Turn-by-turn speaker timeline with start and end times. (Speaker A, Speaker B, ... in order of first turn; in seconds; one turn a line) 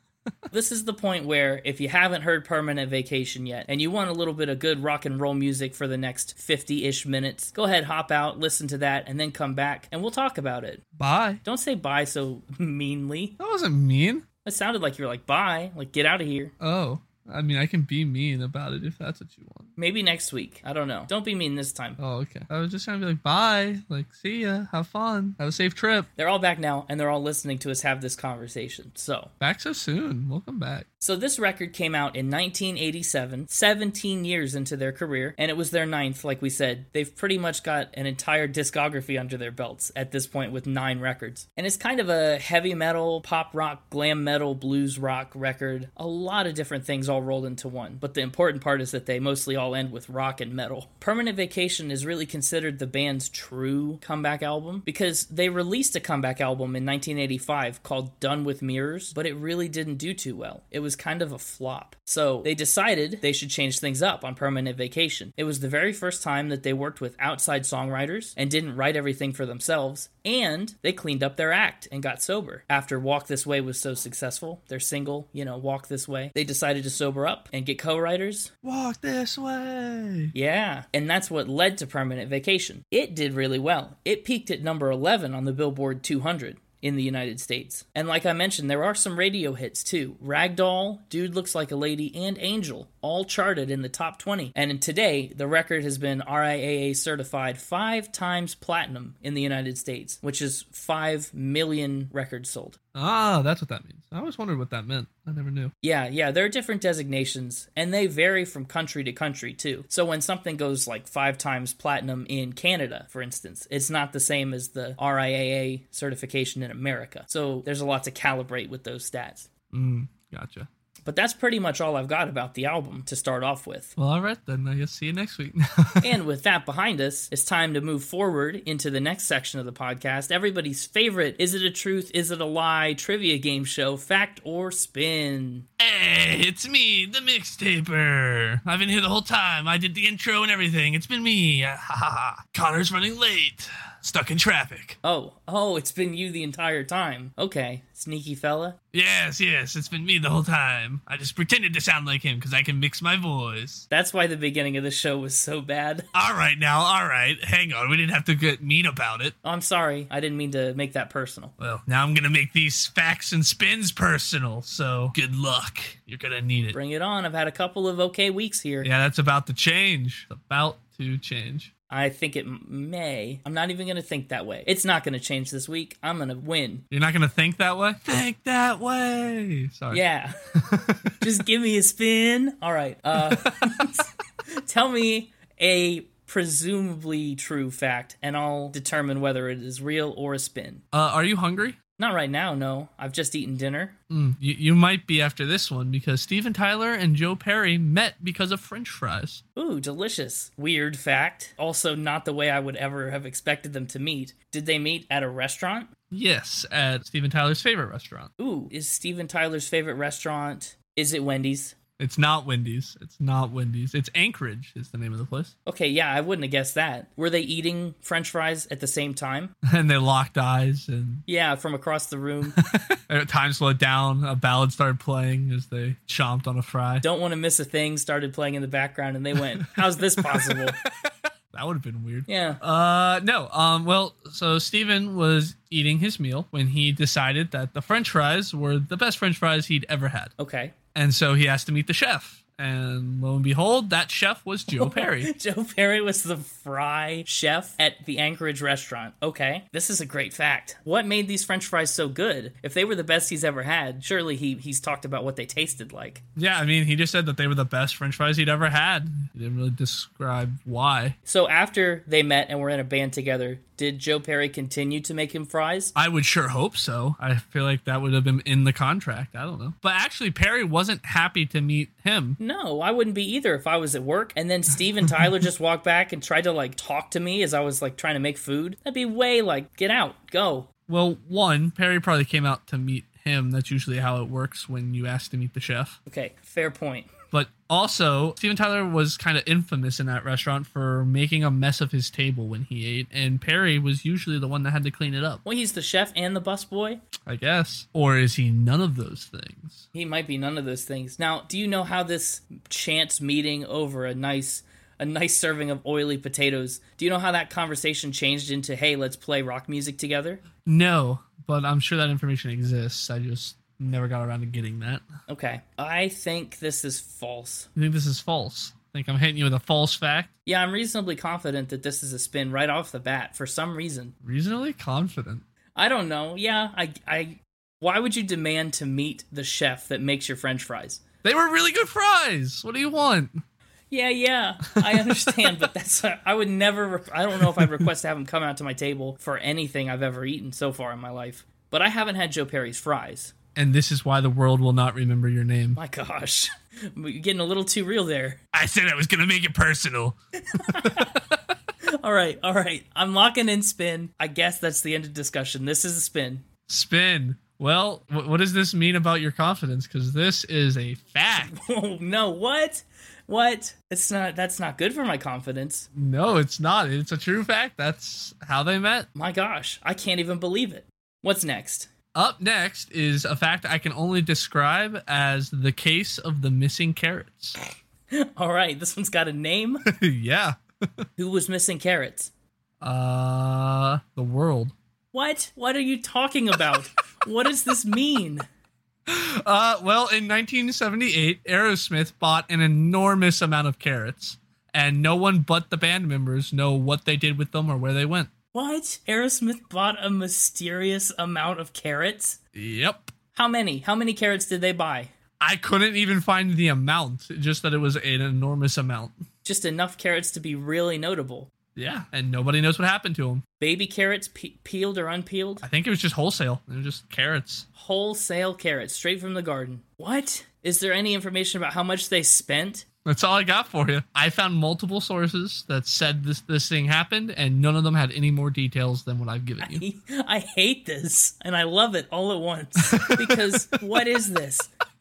Speaker A: 0.5-10.8
Speaker B: 10.9-11.4
Speaker A: 11.4-13.4
Speaker B: 13.4-14.2
Speaker A: 14.4-16.5
Speaker B: 16.6-19.7
Speaker A: 19.8-22.0
Speaker B: 22.0-26.1
Speaker A: 26.2-29.3
Speaker B: 29.4-30.9
Speaker A: 31.0-78.5
Speaker B: 78.6-80.3
Speaker A: 80.3-102.8
Speaker B: 102.9-105.7
Speaker A: 105.8-119.5
Speaker B: 119.7-120.7
Speaker A: 121.1-124.0
Speaker B: 124.0-126.2
Speaker A: 126.0-135.7
Speaker B: 135.8-145.0
Speaker A: 145.0-148.8
Speaker B: 148.9-153.9
Speaker A: 153.9-156.1
Speaker B: 156.1-159.3
Speaker A: 159.4-161.5
Speaker B: 161.6-166.8
Speaker A: 166.7-168.9
Speaker B: 168.8-171.7
Speaker A: 171.9-176.8
Speaker B: 176.9-181.2
Speaker A: 179.9-180.4
Speaker A: 181.2-190.8
Speaker B: 183.3-183.8
Speaker B: 190.9-191.8
Speaker A: 192.0-193.9
Speaker B: 194.1-199.4
Speaker A: 199.6-205.9
Speaker B: 206.1-208.3
Speaker A: 208.4-211.8
Speaker B: 212.0-215.5
Speaker A: 215.7-219.5
Speaker B: 219.6-221.2
Speaker A: 221.3-222.6
Speaker B: 222.6-227.0
Speaker A: 227.0-230.8
Speaker B: 230.3-240.3
Speaker A: 232.3-232.6
Speaker A: 240.4-240.8
Speaker B: 240.9-245.3
Speaker A: 244.7-256.2
Speaker B: 256.4-261.2
Speaker A: 261.3-265.9
Speaker B: 265.9-272.4
Speaker A: 272.4-280.7
Speaker B: 280.9-286.0
Speaker A: 286.1-287.1
Speaker B: 287.3-295.4
Speaker A: 295.4-297.0
Speaker B: 297.3-299.9
Speaker A: 299.9-310.4
Speaker B: 310.6-315.1
Speaker A: 315.3-317.7
Speaker B: 317.8-320.3
Speaker A: 320.5-324.1
Speaker B: 324.2-325.4
Speaker A: 325.8-331.0
Speaker B: 331.2-333.4
Speaker A: 333.9-343.3
Speaker B: 334.8-335.6
Speaker B: 343.6-345.8
Speaker A: 345.8-348.4
Speaker B: 348.5-350.1
Speaker A: 350.5-351.2
Speaker B: 350.7-351.2
Speaker A: 351.9-356.4
Speaker B: 356.7-361.5
Speaker A: 361.3-365.9
Speaker B: 365.9-369.1
Speaker A: 369.1-371.9
Speaker B: 372.1-377.6
Speaker A: 378.1-379.9
Speaker B: 379.9-381.1
Speaker A: 381.2-382.3
Speaker B: 382.8-384.7
Speaker A: 385.1-388.5
Speaker B: 389.1-398.3
Speaker A: 398.5-402.4
Speaker B: 402.5-403.1
Speaker A: 403.3-405.1
Speaker B: 405.4-409.2
Speaker A: 409.4-411.5
Speaker B: 411.8-413.4
Speaker A: 413.6-415.6
Speaker B: 415.6-417.7
Speaker A: 417.8-422.9
Speaker B: 423.1-429.8
Speaker A: 429.6-434.7
Speaker B: 432.9-433.5